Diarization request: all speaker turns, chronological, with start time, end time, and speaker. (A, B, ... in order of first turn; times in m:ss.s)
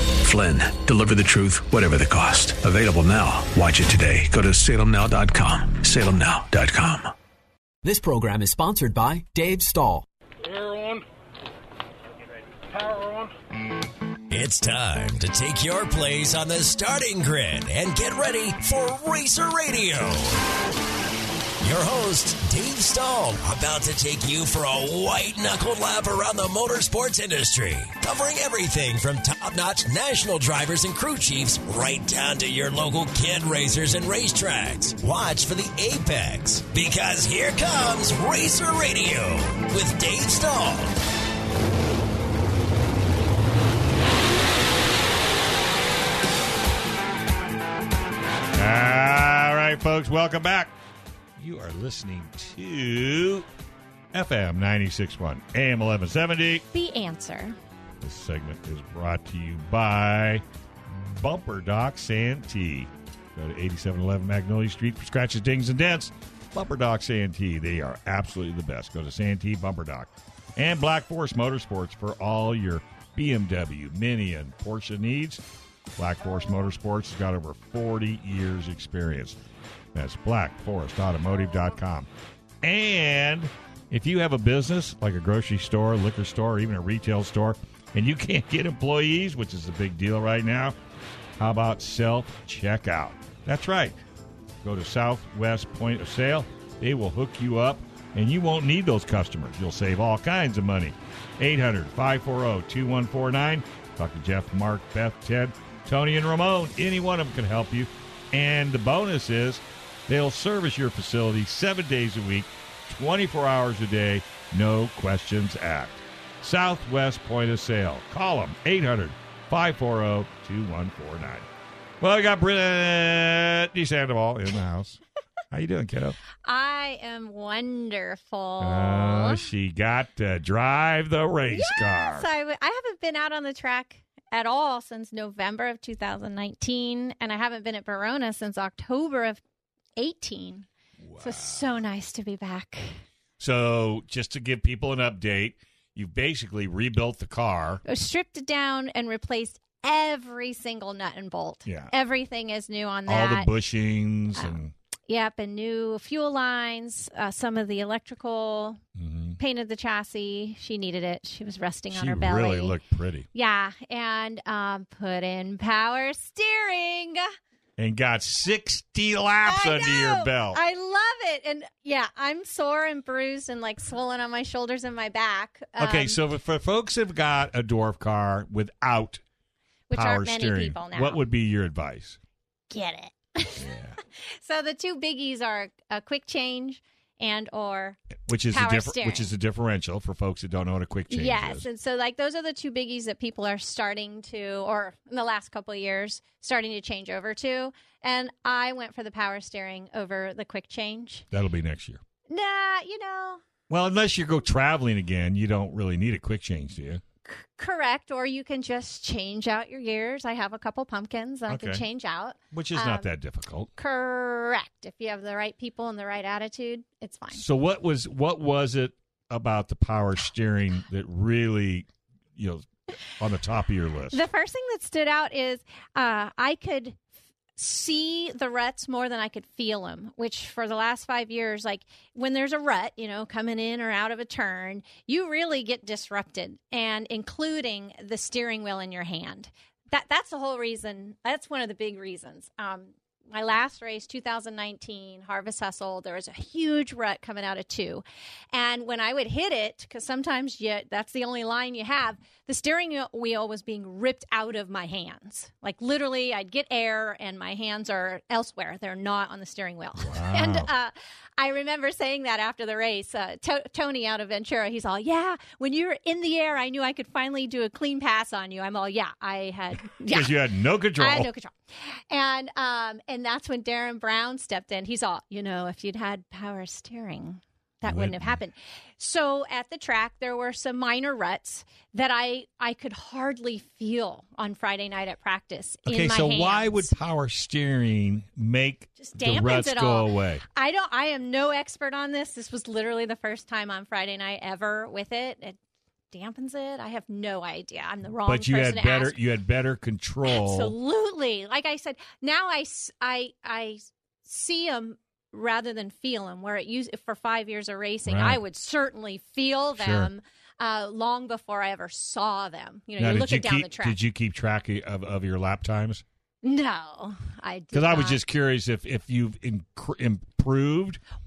0:00.1-0:07.1 A
0:07.8-0:10.1 B
0:14.3-0:20.4 C
0:21.6-0:41.0 C
0:48.6-0:50.7 D
0:51.4-0:53.5 D
0:54.1-0:56.6 D
0:56.7-0:57.6 E
0:58.0-1:15.4 D
1:16.0-1:19.4 D
1:19.9-1:22.1 D
1:22.6-1:30.8 D
1:31.4-1:34.0 D
1:34.6-2:01.5 D
2:02.0-2:05.0 D
2:05.5-2:06.2 D
2:06.4-2:09.5 E
2:08.6-2:12.3 D
2:11.5-2:19.4 E
2:20.0-2:20.7 E
2:21.0-2:21.7 D
2:21.2-2:23.0 E
2:23.4-2:27.8 D
2:27.8-2:33.5 E
2:31.7-2:31.9 D
2:33.1-2:34.7 D
2:35.1-2:38.8 E
2:39.0-2:39.4 D
2:39.4-2:42.8 E
2:41.9-2:43.3 D
2:43.3-2:47.2 E
2:47.8-2:50.6 D
2:49.4-2:56.2 E
2:55.8-2:59.2 D
2:59.9-3:01.2 E
2:59.9-3:02.2 D
3:02.7-3:08.0 E
3:03.6-3:04.0 D
3:08.3-3:11.7 D
3:08.5-3:09.3 E
3:11.1-3:21.2 E
3:21.3-3:22.0 D
3:22.3-3:23.4 E
3:23.7-3:27.0 D
3:27.3-3:33.1 E
3:31.5-3:31.8 D
3:32.5-3:33.7 D
3:33.8-3:37.4 E
3:37.3-3:44.2 D
3:44.1-3:47.0 E
3:47.6-4:30.4 E
4:20.0-4:20.7 D
4:30.1-4:31.3 D
4:31.0-4:31.6 E
4:32.1-4:46.9 E
4:37.8-4:38.4 D
4:45.9-4:50.4 D
4:49.0-4:55.6 E
4:56.1-4:59.2 E
4:58.2-5:00.7 D
5:00.2-5:14.0 E
5:08.1-5:08.4 D
5:09.8-5:10.1 D
5:13.0-5:16.0 D
5:16.4-5:18.2 E
5:17.7-5:21.0 D